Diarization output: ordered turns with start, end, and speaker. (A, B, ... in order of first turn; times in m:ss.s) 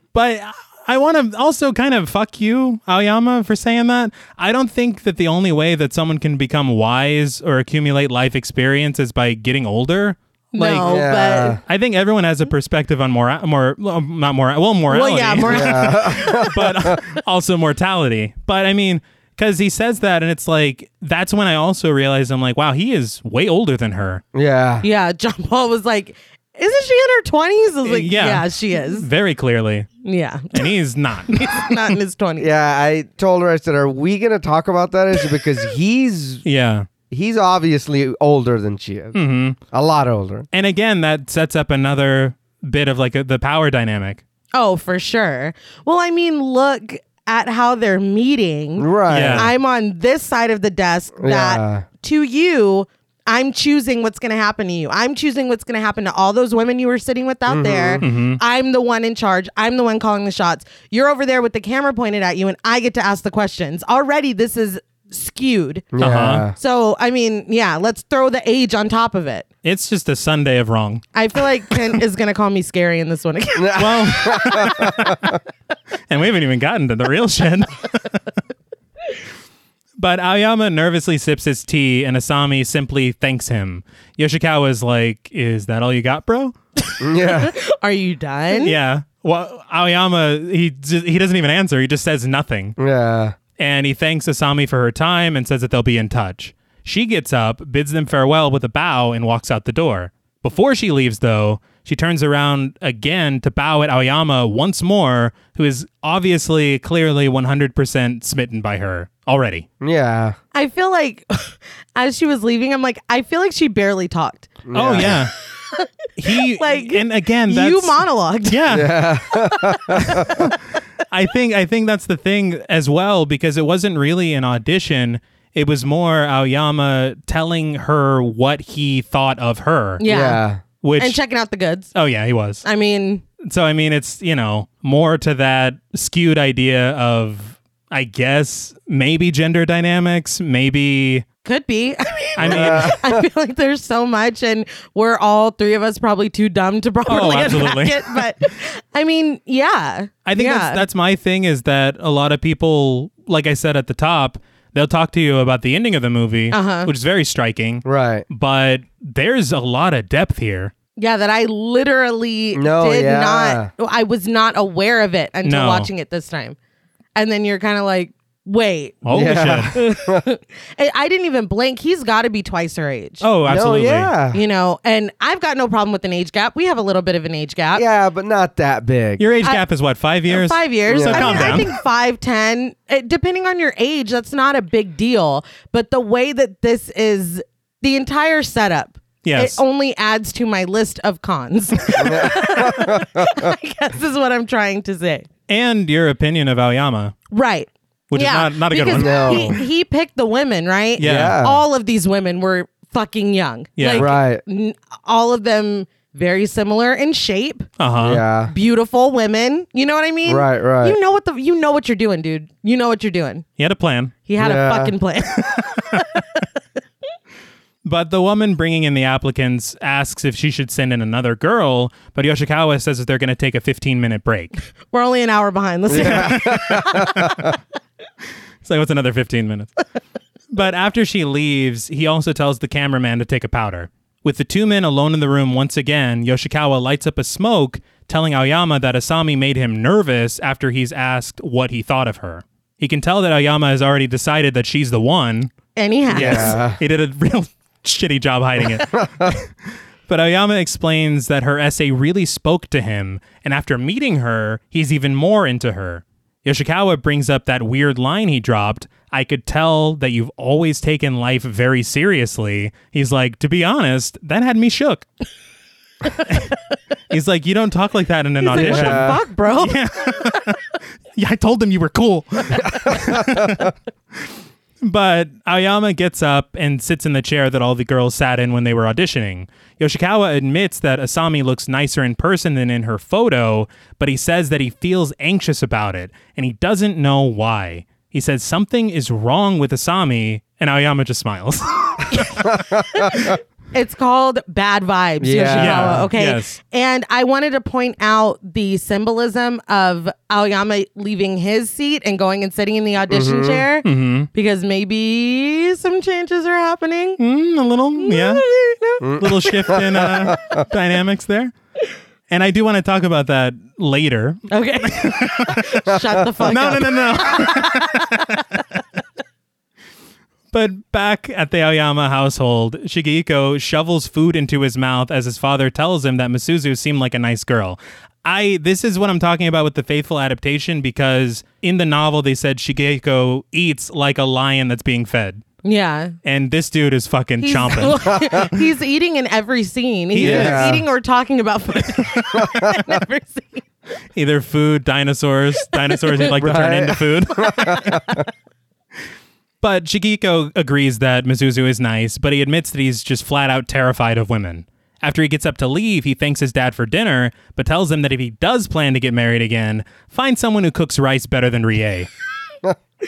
0:00.1-0:24.2 A
0:10.5-0:11.6 B
0:10.8-0:11.6 C
0:14.9-0:16.6 B
0:15.4-0:17.0 C
0:24.3-0:24.8 C
0:24.8-0:29.1 B
0:27.8-0:29.9 A
0:30.0-0:30.7 B
0:30.5-0:31.9 A
0:31.3-0:32.5 B
0:32.4-0:36.4 C
0:36.4-0:36.9 A
0:37.1-0:39.2 C
0:39.1-0:39.6 A
0:39.7-0:40.5 C
0:40.5-0:44.2 A
0:44.5-1:05.9 B
0:48.8-0:49.5 C
0:49.1-0:49.5 A
0:51.2-0:51.8 C
0:57.5-0:58.0 C
0:58.0-0:58.4 A
1:05.9-1:06.5 C
1:06.0-1:06.5 A
1:06.6-1:09.5 B
1:09.6-1:11.0 A
1:11.1-1:14.6 B
1:13.6-1:15.4 C
1:13.7-1:15.4 A
1:16.1-1:18.2 A
1:20.0-1:26.5 A
1:27.0-1:27.5 C
1:27.1-1:28.7 B
1:28.5-1:32.8 A
1:32.8-1:33.4 C
1:33.6-1:49.6 A
1:49.8-1:50.4 C
1:50.5-1:58.6 B
1:54.6-1:55.2 C
1:54.7-1:55.3 A
1:56.2-1:59.0 A
1:58.7-2:00.5 C
1:59.3-2:00.5 B
2:00.1-2:00.6 A
2:01.1-2:10.0 A
2:10.0-2:10.4 B
2:10.0-2:10.6 C
2:10.8-2:11.2 A
2:11.0-2:11.9 B
2:11.9-2:12.6 A
2:12.6-2:13.2 B
2:13.4-2:21.2 A
2:21.4-2:30.8 B
2:22.4-2:23.0 A
2:22.4-2:23.2 C
2:27.1-2:28.3 A
2:30.2-2:40.7 A
2:36.5-2:36.9 B
2:37.8-2:38.2 C
2:41.0-2:46.6 B
2:42.5-2:43.7 C
2:45.4-2:45.9 A
2:47.2-2:53.2 B
2:49.0-2:49.8 A
2:49.1-2:50.2 C
2:53.2-2:54.1 A
2:53.4-2:54.4 C
2:54.3-2:57.8 B
2:57.7-2:59.2 C
2:59.2-3:01.7 A
3:00.3-3:15.3 B
3:00.9-3:01.7 C
3:09.2-3:09.6 A
3:12.0-3:13.5 C
3:15.5-3:17.2 A
3:17.3-3:27.7 B
3:18.1-3:19.6 A
3:18.9-3:19.6 C
3:21.0-3:21.4 A
3:21.0-3:21.6 C
3:23.8-3:24.1 A
3:24.0-3:24.4 C
3:27.8-3:28.2 A
3:28.0-3:28.5 C
3:28.5-3:33.4 B
3:30.3-3:31.0 C
3:33.6-3:34.1 A
3:34.2-3:36.4 B
3:34.4-3:34.9 C
3:35.7-3:36.0 A
3:37.8-3:44.6 A
3:44.9-3:47.3 B
3:45.9-3:47.5 C
3:45.9-3:47.4 A
3:48.6-3:49.8 A
3:50.5-4:05.5 A
4:05.8-4:06.6 B
4:06.1-4:06.8 C
4:06.1-4:09.5 A
4:08.9-4:09.4 C
4:10.1-4:25.0 A
4:26.1-4:26.6 A
4:27.1-4:34.3 A
4:28.4-4:29.8 B
4:28.5-4:29.2 C
4:32.6-4:33.5 C
4:34.8-4:52.6 A
4:52.4-4:53.3 C
4:52.9-5:07.2 B
4:55.2-4:56.1 C
4:55.6-4:56.6 A
5:03.1-5:03.6 C
5:03.8-5:04.3 A
5:07.2-5:08.5 A
5:08.0-5:09.8 B
5:09.0-5:10.6 C
5:09.2-5:11.5 A
5:12.3-5:15.7 A
5:14.5-5:18.3 B
5:15.9-5:16.8 C
5:16.4-5:18.6 A
5:20.5-5:35.4 A
5:35.6-5:36.1 B
5:36.2-5:38.6 A
5:37.4-5:43.6 B
5:40.1-5:40.8 A
5:40.2-5:40.8 C
5:42.3-5:42.8 C
5:44.1-5:48.0 A
5:45.7-5:46.3 B
5:46.4-5:48.2 C
5:47.8-5:48.2 B
5:49.6-6:02.1 A